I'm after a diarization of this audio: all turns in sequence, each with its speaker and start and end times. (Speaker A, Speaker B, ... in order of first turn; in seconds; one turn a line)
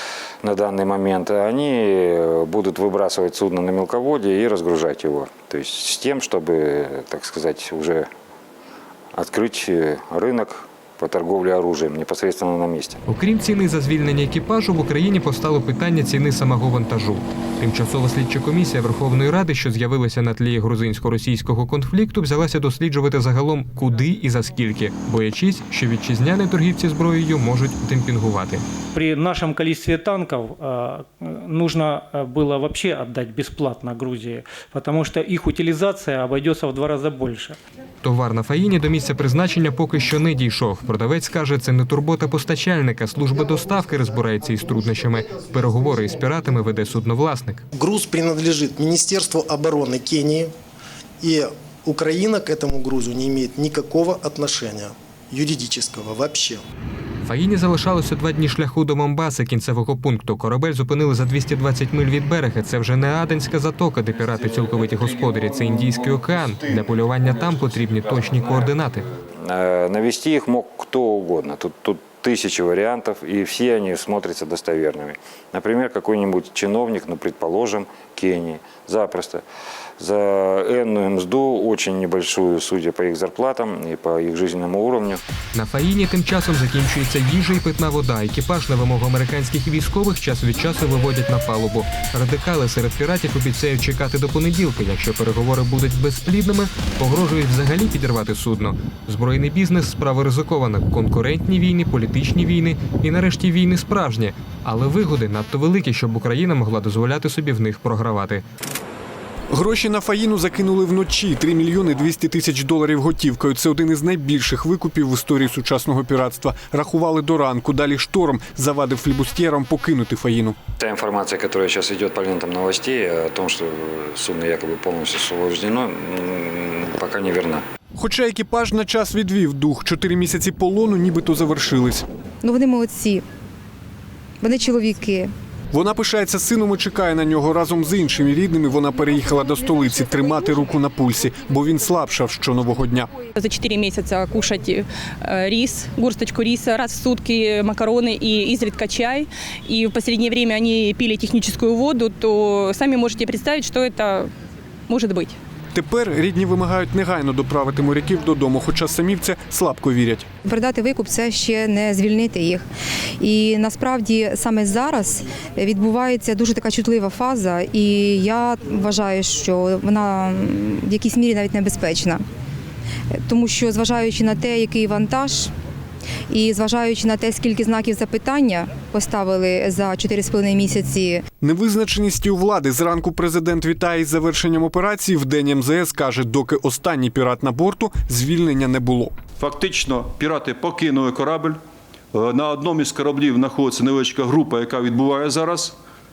Speaker A: 0.4-8.1
Speaker A: 9.2-13.0
Speaker B: 13.1-28.6
Speaker C: 29.0-37.5
Speaker B: 38.0-47.6
Speaker D: 47.8-50.5
Speaker D: 51.2-56.6
Speaker B: 57.3-69.0
Speaker A: 69.4-79.4
Speaker A: 80.0-85.2
Speaker B: 85.5-108.4
Speaker E: 109.5-120.6
Speaker A: 120.8-127.6
Speaker E: 128.0-132.0
Speaker F: 132.4-133.2
Speaker F: 134.4-135.3
Speaker E: 135.7-143.2
Speaker G: 143.4-154.3
Speaker G: 154.9-155.4
Speaker E: 155.7-160.3
Speaker F: 160.4-162.7
Speaker F: 163.2-172.2
Speaker F: 173.2-175.5
Speaker F: 176.3-181.2
Speaker E: 181.4-189.1
Speaker H: 189.4-191.6
Speaker H: 192.2-195.7